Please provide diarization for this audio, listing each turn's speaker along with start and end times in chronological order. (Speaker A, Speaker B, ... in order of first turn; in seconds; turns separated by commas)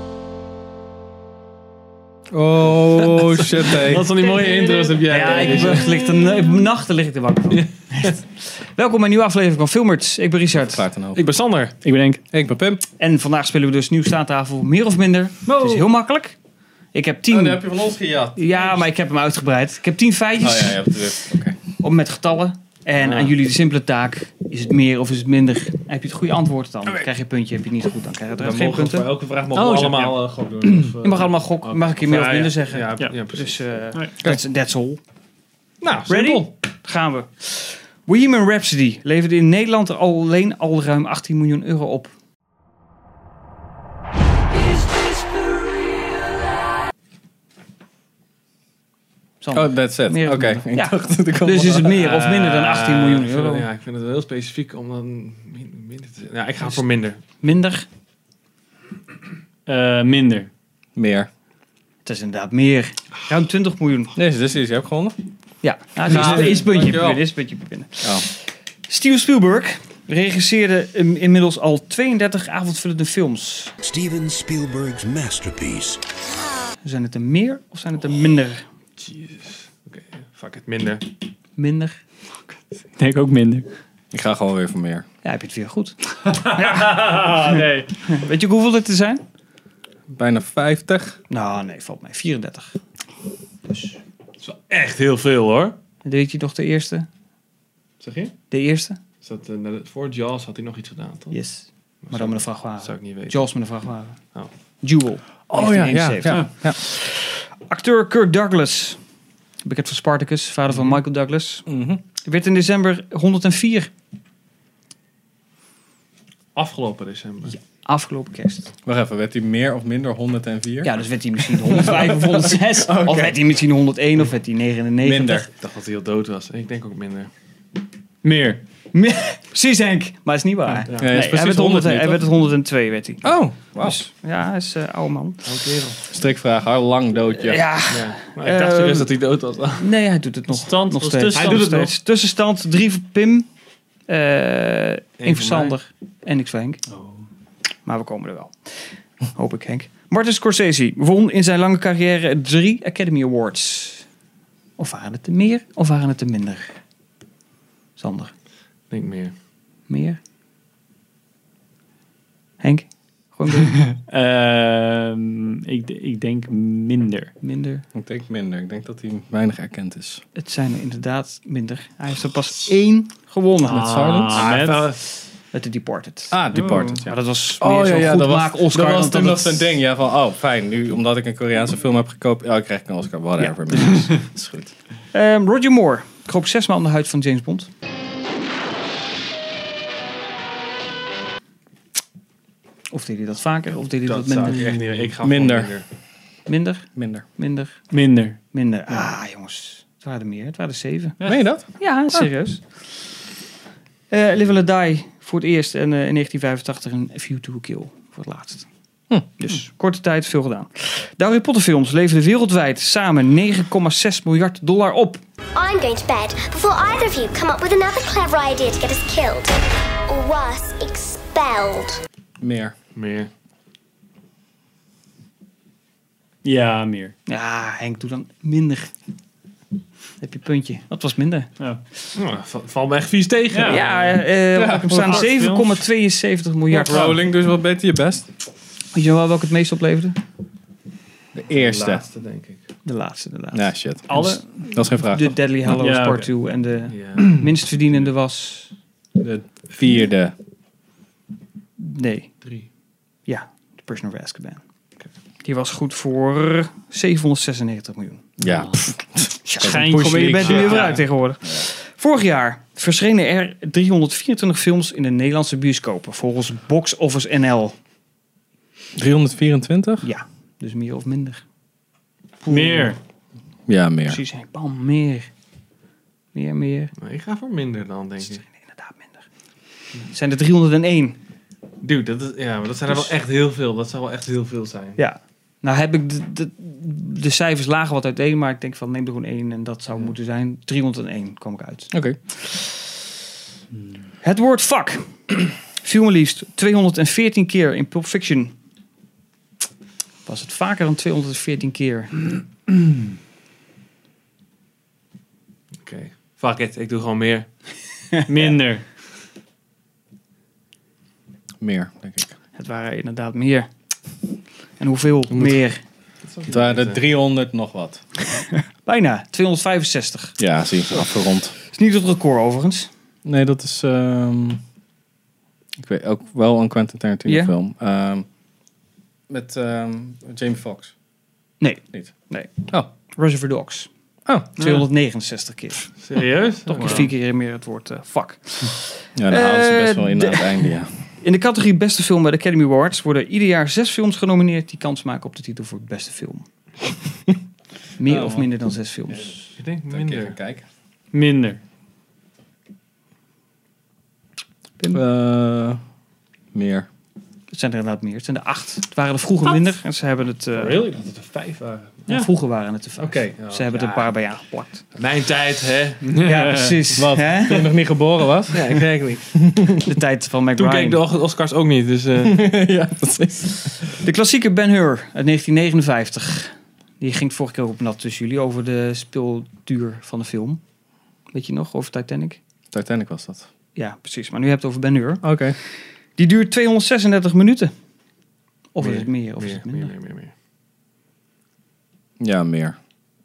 Speaker A: 2.3-4.1, Speaker B: 3.6-6.0, Speaker C: 4.5-5.8, Speaker D: 5.1-10.8, Speaker A: 10.5-11.2, Speaker B: 11.2-11.8, Speaker C: 11.8-12.2, Speaker A: 12.3-12.8, Speaker D: 13.0-16.4, Speaker C: 15.5-15.8, Speaker D: 16.9-17.7, Speaker A: 17.3-18.9, Speaker D: 18.4-20.9, Speaker A: 20.4-21.6, Speaker D: 21.8-29.1, Speaker B: 23.0-23.4, Speaker B: 28.4-33.6, Speaker C: 29.5-30.3, Speaker D: 30.6-35.0, Speaker B: 35.8-36.5, Speaker D: 36.1-42.1, Speaker D: 49.4-53.7, Speaker A: 49.5-52.1, Speaker B: 52.0-57.2, Speaker D: 57.4-57.9, Speaker C: 59.7-60.5, Speaker A: 61.0-61.3, Speaker D: 62.0-64.1, Speaker A: 64.2-65.2, Speaker D: 65.6-73.7, Speaker A: 66.0-67.2, Speaker E: 73.8-76.0, Speaker D: 76.8-78.6, Speaker B: 79.0-81.0, Speaker D: 81.6-82.0, Speaker C: 83.0-83.7, Speaker A: 84.1-85.0, Speaker D: 85.2-89.2, Speaker C: 86.3-87.9, Speaker A: 90.1-91.2, Speaker D: 91.3-92.8, Speaker D: 93.7-94.0, Speaker B: 94.4-95.8, Speaker D: 96.0-97.1, Speaker B: 98.0-98.3, Speaker D: 98.5-99.0, Speaker B: 99.2-101.3, Speaker D: 101.3-104.2, Speaker B: 102.0-103.5, Speaker D: 104.8-109.0, Speaker A: 105.5-106.8, Speaker D: 109.6-111.7, Speaker B: 110.7-111.0, Speaker A: 111.7-112.0, Speaker D: 112.2-113.9, Speaker B: 116.5-117.6, Speaker D: 117.5-118.7, Speaker A: 118.8-123.4, Speaker D: 120.8-125.5, Speaker A: 125.0-125.5, Speaker B: 125.5-127.3, Speaker C: 128.2-128.6, Speaker D: 128.9-135.5, Speaker B: 130.8-131.2, Speaker A: 131.0-132.3, Speaker A: 133.2-134.0, Speaker B: 135.4-136.0, Speaker A: 136.1-137.7, Speaker D: 137.4-139.1, Speaker B: 137.9-139.9, Speaker D: 139.8-143.5, Speaker C: 140.5-141.9, Speaker B: 141.3-141.9, Speaker D: 144.1-146.8, Speaker B: 145.2-145.8, Speaker D: 147.8-148.8, Speaker D: 149.3-154.1, Speaker D: 154.8-156.8, Speaker D: 158.0-158.3, Speaker B: 158.9-159.3, Speaker D: 159.9-160.2, Speaker D: 162.6-163.9, Speaker C: 163.9-167.3, Speaker D: 167.4-167.8, Speaker A: 167.9-170.2, Speaker D: 170.3-174.2, Speaker A: 173.7-174.5, Speaker C: 174.0-174.9, Speaker B: 174.3-175.2, Speaker D: 175.5-176.4, Speaker A: 176.3-184.7, Speaker C: 176.5-176.9, Speaker D: 176.9-179.8, Speaker D: 183.4-184.1, Speaker D: 185.1-187.7, Speaker D: 192.9-194.8, Speaker B: 194.1-195.9, Speaker A: 195.2-195.7, Speaker D: 196.5-197.8, Speaker A: 197.0-197.2, Speaker C: 197.9-199.1, Speaker D: 198.5-201.2, Speaker A: 201.2-202.3, Speaker D: 201.7-202.8, Speaker D: 204.1-208.7, Speaker D: 209.4-215.2, Speaker F: 215.6-219.6, Speaker F: 220.1-222.0, Speaker A: 222.4-222.8, Speaker B: 222.9-223.3, Speaker C: 226.4-227.2, Speaker D: 227.3-228.9, Speaker D: 230.2-231.6, Speaker B: 232.2-233.8, Speaker C: 233.5-234.2, Speaker D: 233.7-237.2, Speaker A: 234.6-235.3, Speaker C: 234.9-235.8, Speaker A: 236.7-238.3, Speaker D: 238.9-240.2, Speaker A: 241.3-242.1, Speaker B: 241.5-242.6, Speaker D: 242.8-248.7, Speaker A: 243.5-245.4, Speaker C: 244.1-244.4, Speaker C: 245.7-246.3, Speaker B: 246.9-247.5, Speaker A: 249.2-250.3, Speaker D: 251.8-252.3, Speaker D: 253.3-254.6, Speaker D: 255.4-258.3, Speaker A: 258.4-261.6, Speaker C: 258.5-258.8, Speaker D: 259.4-259.8, Speaker C: 259.5-261.0, Speaker D: 260.3-267.8, Speaker A: 269.0-270.1, Speaker D: 270.0-271.4, Speaker D: 272.4-272.9, Speaker C: 272.5-273.0, Speaker A: 273.7-274.2, Speaker D: 274.1-275.3, Speaker D: 276.3-276.9, Speaker B: 277.0-278.4, Speaker D: 278.2-279.2, Speaker D: 280.0-281.2, Speaker B: 281.8-285.0, Speaker D: 285.0-291.9, Speaker A: 291.9-292.2, Speaker D: 294.2-298.5, Speaker D: 300.3-302.3, Speaker B: 305.8-307.5, Speaker C: 308.2-308.9, Speaker A: 311.6-312.3, Speaker D: 312.6-313.7, Speaker D: 314.8-315.8, Speaker B: 315.3-315.6, Speaker B: 316.2-317.0, Speaker A: 316.5-318.0, Speaker D: 318.4-320.4, Speaker A: 320.4-321.6, Speaker D: 321.6-322.9, Speaker A: 323.3-324.6, Speaker A: 325.8-328.3, Speaker D: 327.3-327.5, Speaker A: 329.3-330.9, Speaker D: 331.6-333.9, Speaker A: 334.3-334.5, Speaker D: 334.6-336.0, Speaker B: 336.0-337.1, Speaker C: 336.2-337.1, Speaker D: 336.6-346.5, Speaker A: 339.2-340.9, Speaker D: 348.0-349.5, Speaker A: 348.1-348.5, Speaker B: 349.6-350.4, Speaker A: 349.9-350.6, Speaker C: 351.1-351.6, Speaker A: 354.9-355.8, Speaker A: 356.5-356.9, Speaker D: 357.5-360.9, Speaker B: 360.5-362.1, Speaker D: 362.1-364.9, Speaker B: 363.0-364.1, Speaker B: 364.9-366.2, Speaker C: 366.0-366.8, Speaker D: 366.2-367.7, Speaker A: 367.0-368.8, Speaker B: 368.5-369.3, Speaker A: 369.3-369.8, Speaker D: 369.8-371.0, Speaker B: 370.6-372.4, Speaker A: 372.2-373.9, Speaker D: 374.0-380.6, Speaker D: 381.3-382.4, Speaker A: 382.7-383.5, Speaker D: 383.8-385.3, Speaker A: 385.2-385.6, Speaker D: 386.2-387.7, Speaker D: 388.7-389.9, Speaker B: 388.8-390.3, Speaker A: 392.2-392.8